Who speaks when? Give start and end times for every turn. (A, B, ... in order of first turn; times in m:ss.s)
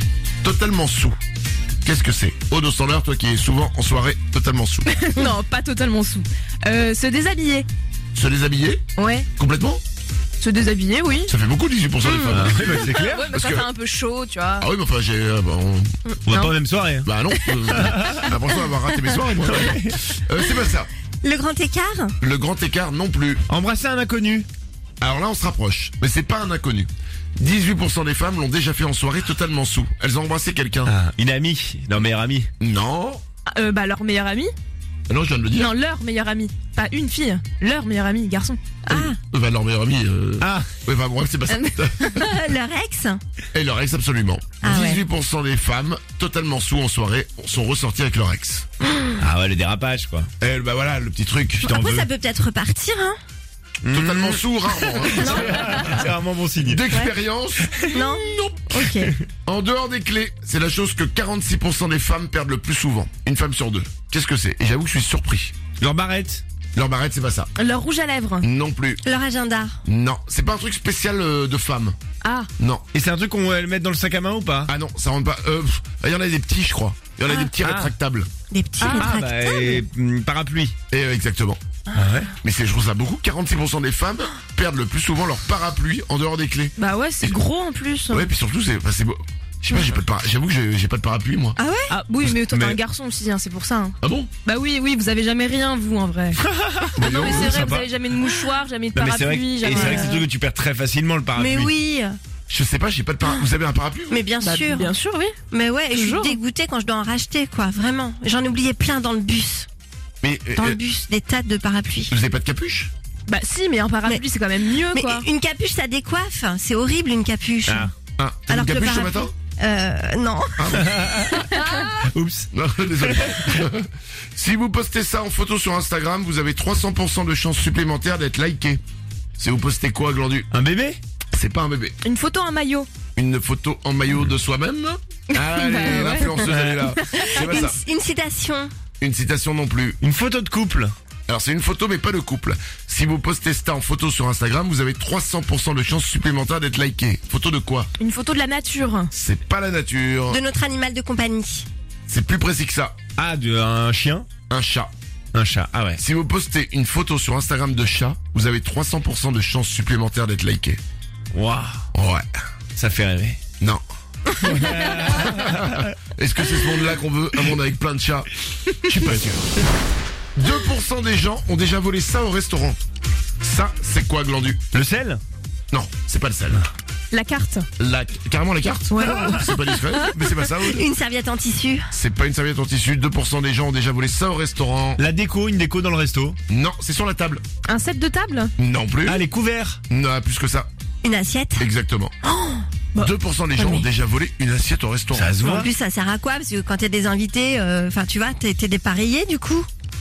0:00.4-0:01.2 A
0:01.8-0:04.9 A
0:04.9-0:07.7 B
0:08.1-0:08.8 A
0:09.0-0:09.3 B
0:09.4-0:09.8 A
0:10.4-0:11.3 B
0:11.3-0:12.8 A
0:12.0-0:12.4 C
0:12.3-0:13.3 D
0:12.7-0:14.7 B
0:13.3-0:13.7 A
0:14.6-0:16.0 A
0:16.3-0:17.1 D
0:16.3-0:16.6 B
0:17.0-0:20.9 A
0:17.7-0:18.3 D
0:19.5-0:20.2 D
0:21.2-0:22.2 C
0:22.2-0:23.4 A
0:23.5-0:24.5 D
0:25.0-0:30.9 A
0:30.9-0:32.5 D
0:32.6-0:33.2 A
0:33.5-0:34.5 B
0:35.1-0:35.7 A
0:35.6-0:38.6 B
0:38.9-0:39.2 C
0:38.9-0:42.2 A
0:40.4-0:40.7 D
0:41.5-0:42.3 B
0:42.1-0:43.2 C
0:43.5-0:48.7 A
0:44.6-0:45.0 C
0:49.2-0:50.3 D
0:50.4-0:51.6 A
0:51.6-0:53.2 C
0:51.7-0:52.1 D
0:53.8-0:54.4 D
0:53.9-0:55.7 A
0:55.0-0:56.8 D
0:55.1-0:56.0 C
0:56.6-0:58.7 A
0:57.9-0:59.1 C
0:59.5-1:05.6 A
1:05.8-1:06.4 D
1:06.8-1:07.5 A
1:07.6-1:08.5 B
1:08.4-1:09.0 A
1:09.0-1:09.8 C
1:09.9-1:12.0 A
1:12.2-1:12.5 B
1:12.6-1:12.8 A
1:12.9-1:14.7 D
1:14.7-1:18.3 A
1:17.3-1:17.5 C
1:17.6-1:17.9 D
1:18.5-1:19.8 C
1:18.8-1:19.2 B
1:18.9-1:20.8 D
1:20.9-1:21.6 A
1:22.0-1:22.3 D
1:22.4-1:27.4 A
1:26.8-1:28.3 B
1:28.1-1:31.6 A
1:31.6-1:31.9 C
1:31.9-1:36.4 B
1:32.4-1:32.8 D
1:34.0-1:34.3 A
1:36.5-1:37.9 D
1:37.0-1:37.6 A
1:37.0-1:40.2 B
1:39.0-1:41.7 D
1:39.7-1:40.2 C
1:41.4-1:42.2 C
1:42.5-1:44.2 A
1:44.1-1:44.9 C
1:44.4-1:45.4 B
1:45.5-1:49.7 C
1:45.9-1:46.4 B
1:50.2-1:50.8 A
1:50.6-1:52.2 C
1:52.1-1:52.9 A
1:53.3-1:55.3 B
1:54.9-1:57.9 C
1:58.2-1:59.3 A
1:58.5-2:01.8 C
2:00.6-2:00.9 A
2:00.9-2:02.5 D
2:01.6-2:01.9 B
2:02.5-2:08.8 A
2:03.0-2:03.4 D
2:09.4-2:10.5 A
2:10.5-2:11.0 D
2:11.3-2:12.0 A
2:12.0-2:12.9 B
2:13.2-2:17.8 A
2:15.3-2:16.3 B
2:16.3-2:16.9 D
2:17.2-2:18.7 C
2:19.0-2:20.0 A
2:20.0-2:20.9 D
2:21.3-2:27.9 A
2:28.0-2:29.1 B
2:29.1-2:30.4 A
2:30.3-2:31.7 C
2:32.1-2:33.0 A
2:33.2-2:34.3 D
2:34.5-2:34.9 A
2:35.3-2:36.0 D
2:36.0-2:40.8 A
2:41.3-2:41.8 D
2:41.9-2:42.3 A
2:42.8-2:43.4 D
2:44.4-2:45.9 D
2:45.2-2:49.6 A
2:50.4-2:52.8 A
2:53.4-2:54.7 A
2:54.7-2:55.2 D
2:55.7-2:56.6 A
2:57.1-2:57.7 B
2:57.8-3:00.9 A
2:58.9-2:59.5 B
3:00.6-3:01.9 C
3:01.9-3:05.0 A
3:05.0-3:06.4 D
3:06.5-3:07.4 A
3:07.6-3:08.5 B
3:08.6-3:09.2 A
3:09.1-3:09.8 D
3:09.9-3:10.7 A
3:11.0-3:11.7 C
3:11.6-3:12.1 A
3:12.3-3:13.9 B
3:13.0-3:15.4 A
3:15.1-3:15.7 D
3:15.4-3:19.7 C